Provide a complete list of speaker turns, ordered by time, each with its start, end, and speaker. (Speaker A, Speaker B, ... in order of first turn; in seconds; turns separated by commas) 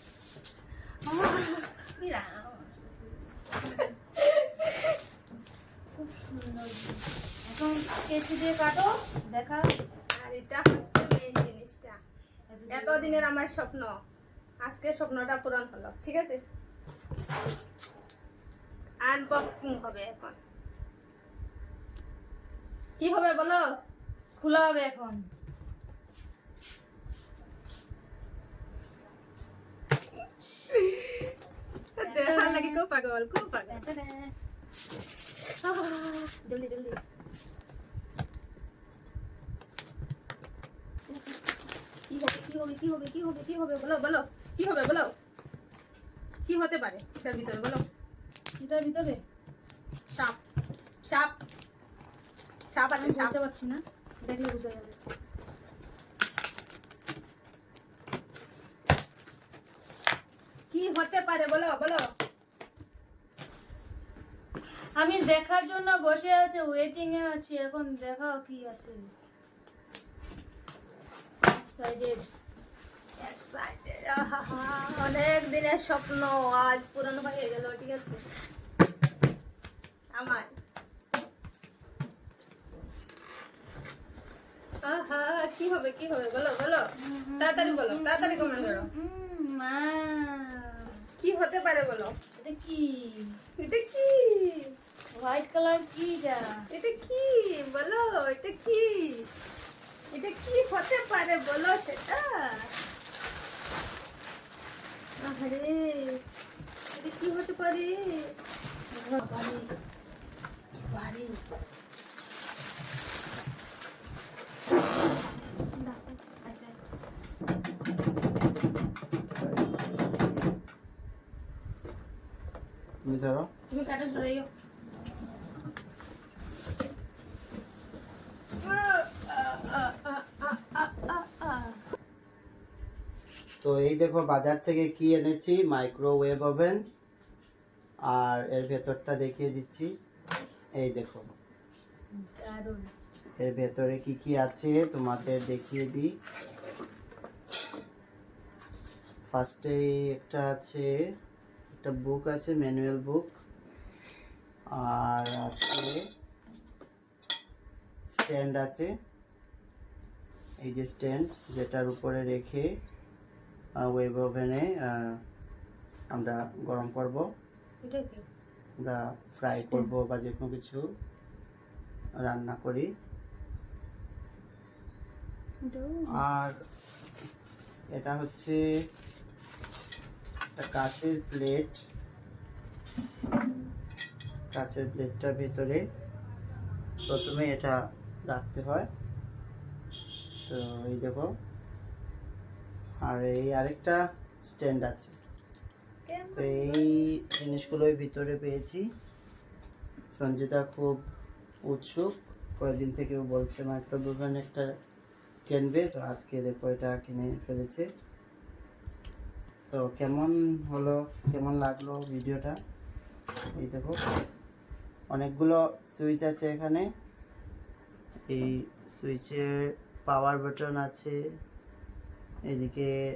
Speaker A: 1.0-1.8, Speaker B: 2.0-3.9, Speaker A: 3.8-5.0, Speaker B: 6.0-9.7, Speaker A: 10.1-12.0, Speaker B: 12.5-13.3, Speaker A: 12.7-13.9, Speaker A: 14.6-16.4, Speaker A: 19.0-20.4, Speaker A: 23.0-23.6, Speaker B: 24.4-25.2, Speaker A: 30.7-31.3, Speaker A: 32.0-33.8, Speaker B: 32.0-32.8, Speaker B: 33.7-34.3, Speaker A: 35.4-36.4, Speaker B: 36.4-37.0, Speaker A: 42.1-45.1, Speaker A: 46.5-47.8, Speaker B: 48.6-49.2, Speaker A: 50.1-50.4, Speaker A: 51.0-51.3, Speaker A: 52.7-53.4, Speaker B: 52.9-55.0, Speaker A: 60.7-62.1, Speaker B: 64.9-69.1, Speaker B: 71.4-72.2, Speaker A: 73.2-78.2, Speaker A: 80.1-80.5, Speaker A: 84.8-86.8, Speaker B: 87.0-90.9, Speaker A: 87.4-88.9, Speaker A: 91.2-92.1, Speaker B: 92.3-93.4, Speaker A: 93.6-94.7, Speaker B: 95.1-96.6, Speaker A: 96.7-99.3, Speaker A: 100.1-102.7, Speaker A: 105.2-106.2, Speaker A: 106.9-108.3, Speaker A: 109.0-109.7, Speaker A: 110.9-111.4, Speaker A: 115.8-116.7, Speaker C: 123.0-123.5, Speaker A: 123.7-124.5, Speaker A: 128.6-131.8, Speaker C: 133.6-136.8, Speaker C: 138.1-139.9, Speaker C: 140.8-141.2, Speaker B: 142.1-142.9, Speaker C: 143.4-146.1, Speaker C: 149.3-150.9, Speaker C: 151.7-153.3, Speaker C: 154.7-156.0, Speaker C: 158.1-158.9, Speaker C: 160.6-162.7, Speaker C: 163.8-165.1, Speaker C: 166.1-167.2, Speaker B: 167.8-168.2, Speaker C: 168.8-170.8, Speaker B: 169.6-169.9, Speaker C: 172.2-172.9, Speaker B: 175.6-176.2, Speaker C: 176.1-176.5, Speaker C: 177.9-178.6, Speaker C: 180.6-181.8, Speaker C: 184.5-185.8, Speaker C: 187.1-187.8, Speaker C: 188.3-188.9, Speaker C: 190.4-191.3, Speaker C: 193.0-195.1, Speaker A: 196.1-197.1, Speaker C: 196.3-198.8, Speaker C: 200.2-201.0, Speaker C: 201.7-204.7, Speaker C: 205.5-207.8, Speaker C: 209.7-212.6, Speaker C: 213.6-213.9, Speaker C: 215.1-216.9, Speaker C: 218.3-221.2, Speaker C: 222.5-222.9